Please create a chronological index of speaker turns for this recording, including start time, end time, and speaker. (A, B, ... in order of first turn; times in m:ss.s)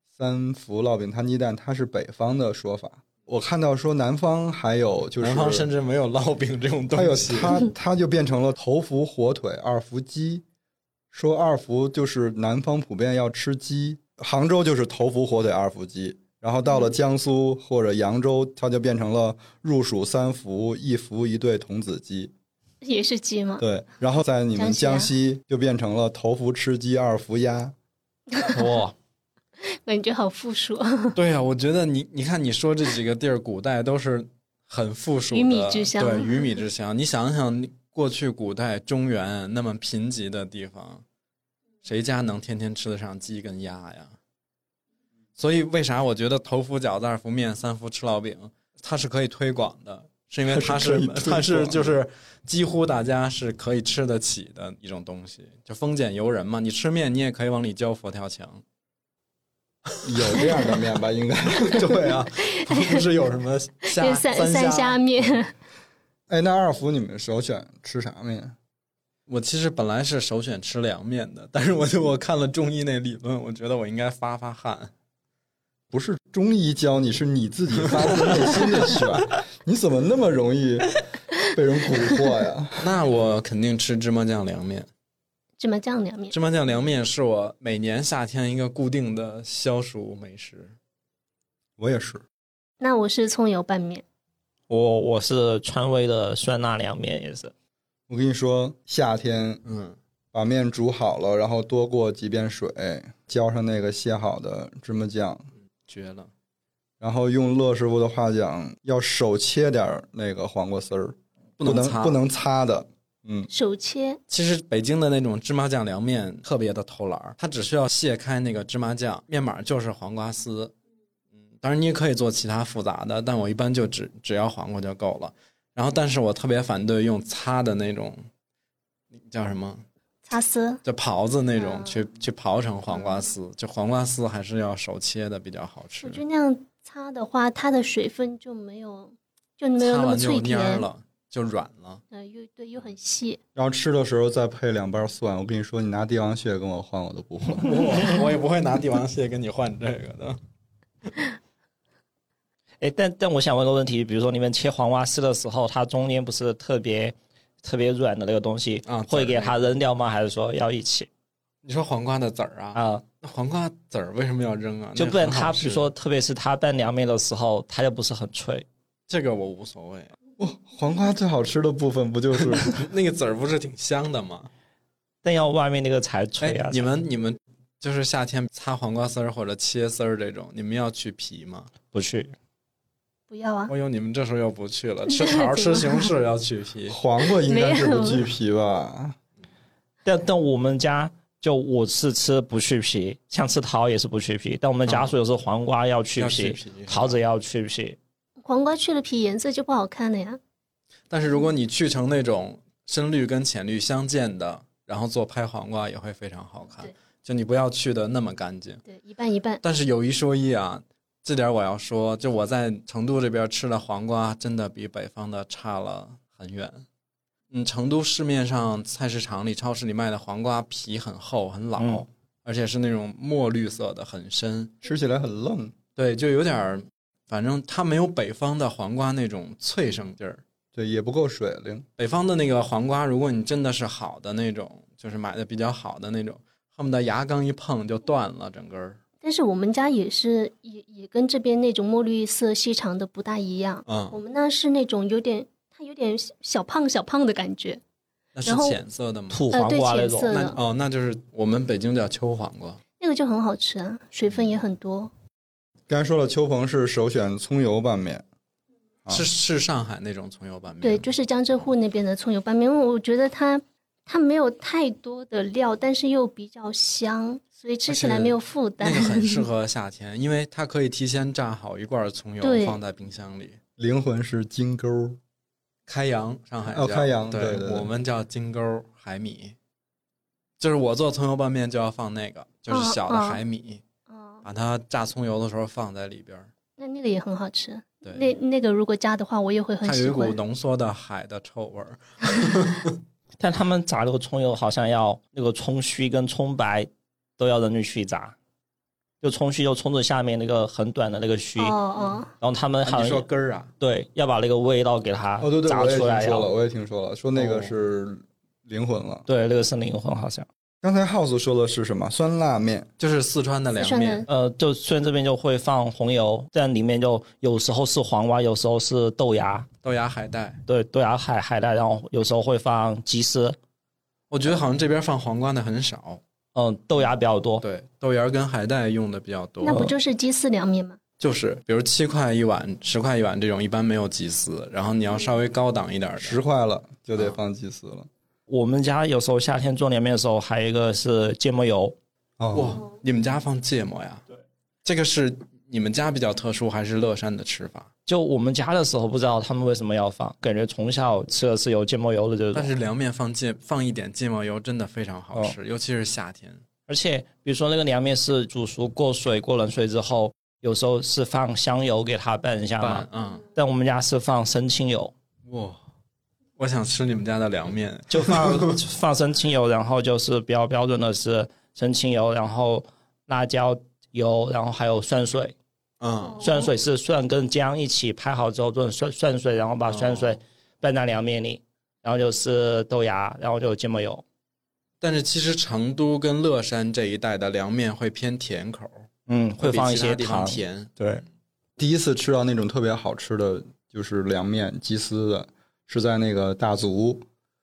0:00.2-0:05.7 A
0:05.2-0:07.6 B
0:06.9-0:10.4 A
0:11.1-0:22.3 A
0:22.8-0:23.6 C
0:23.6-0:27.7 A
0:24.6-0:25.1 C
0:28.5-0:28.9 D
0:29.6-0:31.2 C
0:31.1-0:41.0 B
0:35.3-0:36.5 C
0:41.8-0:44.2 B
0:45.4-0:58.6 B
0:50.5-0:51.9 A
1:00.0-1:02.1 A
1:00.1-1:00.5 B
1:01.6-1:05.3 B
1:02.4-1:03.0 C
1:04.0-1:05.5 C
1:06.3-1:08.5 A
1:09.3-1:14.9 B
1:15.9-1:22.9 A
1:18.2-1:19.1 B
1:22.8-1:24.9 B
1:25.6-1:26.3 C
1:26.3-1:30.7 B
1:31.8-1:32.2 A
1:32.8-1:34.0 C
1:34.7-1:37.5 D
1:38.1-1:39.6 A
1:39.6-1:40.0 B
1:40.3-1:45.4 A
1:45.9-1:46.3 B
1:47.0-1:53.5 A
1:51.6-1:52.2 B
1:53.5-1:54.2 C
1:54.3-2:00.7 B
2:01.6-2:08.2 B
2:09.1-2:09.8 B
2:10.3-2:10.8 C
2:10.8-2:16.2 B
2:11.6-2:12.0 C
2:16.0-2:20.8 C
2:19.8-2:22.0 B
2:22.1-2:23.4 C
2:23.5-2:28.0 A
2:27.6-2:30.4 B
2:32.8-2:41.1 D
2:38.8-2:39.6 B
2:41.6-2:45.9 B
2:42.7-2:43.0 D
2:45.0-2:48.6 D
2:49.1-2:50.1 B
2:50.4-2:52.8 A
2:52.6-2:54.5 B
2:55.2-2:56.8 D
2:56.4-3:01.7 B
3:01.9-3:02.3 D
3:03.3-3:03.7 C
3:03.7-3:07.0 B
3:05.1-3:06.1 C
3:06.9-3:09.2 A
3:07.4-3:08.2 C
3:10.0-3:18.0 D
3:14.9-3:15.1 B
3:16.2-3:17.2 B
3:18.4-3:20.4 C
3:21.1-3:28.8 B
3:28.8-3:29.6 C
3:29.6-3:36.8 B
3:37.5-3:44.8 B
3:41.8-3:42.0 D
3:44.8-3:45.7 A
3:46.0-3:50.4 B
3:50.7-3:51.8 A
3:52.0-3:59.0 B
3:59.2-4:07.8 C
4:03.8-4:04.2 B
4:08.3-4:09.4 B
4:08.4-4:08.8 C
4:09.3-4:10.5 D
4:09.5-4:10.6 C
4:10.3-4:12.8 B
4:13.0-4:15.1 C
4:15.9-4:18.2 A
4:19.1-4:21.1 B
4:20.8-4:29.4 C
4:27.9-4:33.6 B
4:32.4-4:32.8 C
4:33.8-4:35.2 A
4:35.9-4:39.6 B
4:36.6-4:37.9 A
4:40.6-4:43.8 B
4:42.7-4:43.4 C
4:44.1-4:44.4 C
4:44.4-4:46.5 B
4:46.8-4:50.4 C
4:48.0-4:48.3 B
4:49.8-4:52.9 B
4:53.4-4:58.3 D
4:59.2-5:01.8 D
5:01.6-5:02.3 C
5:02.4-5:03.2 D
5:02.8-5:03.7 B
5:03.8-5:06.5 D
5:05.4-5:09.2 A
5:07.4-5:07.7 B
5:09.3-5:10.5 D
5:10.8-5:12.9 A
5:13.0-5:14.2 B
5:13.8-5:14.3 C
5:14.3-5:19.7 D
5:19.8-5:20.6 B
5:20.6-5:23.6 D
5:24.3-5:26.2 B
5:26.5-5:27.6 D
5:27.6-5:29.9 B
5:29.6-5:31.0 C
5:29.7-5:29.9 D
5:31.2-5:36.4 B
5:36.2-5:38.1 A
5:38.5-5:42.0 D
5:42.4-5:42.8 A
5:42.5-5:44.2 B
5:44.8-5:47.9 B
5:48.1-5:52.7 D
5:52.5-5:56.6 B
5:56.9-6:05.1 D
6:02.8-6:03.4 B
6:05.5-6:05.8 B
6:06.6-6:08.8 B
6:08.1-6:15.5 D
6:16.0-6:16.4 B
6:16.2-6:16.7 C
6:16.4-6:24.2 D
6:19.9-6:20.4 B
6:25.0-6:29.0 B
6:29.3-6:31.2 D
6:29.6-6:30.9 B
6:31.8-6:37.2 A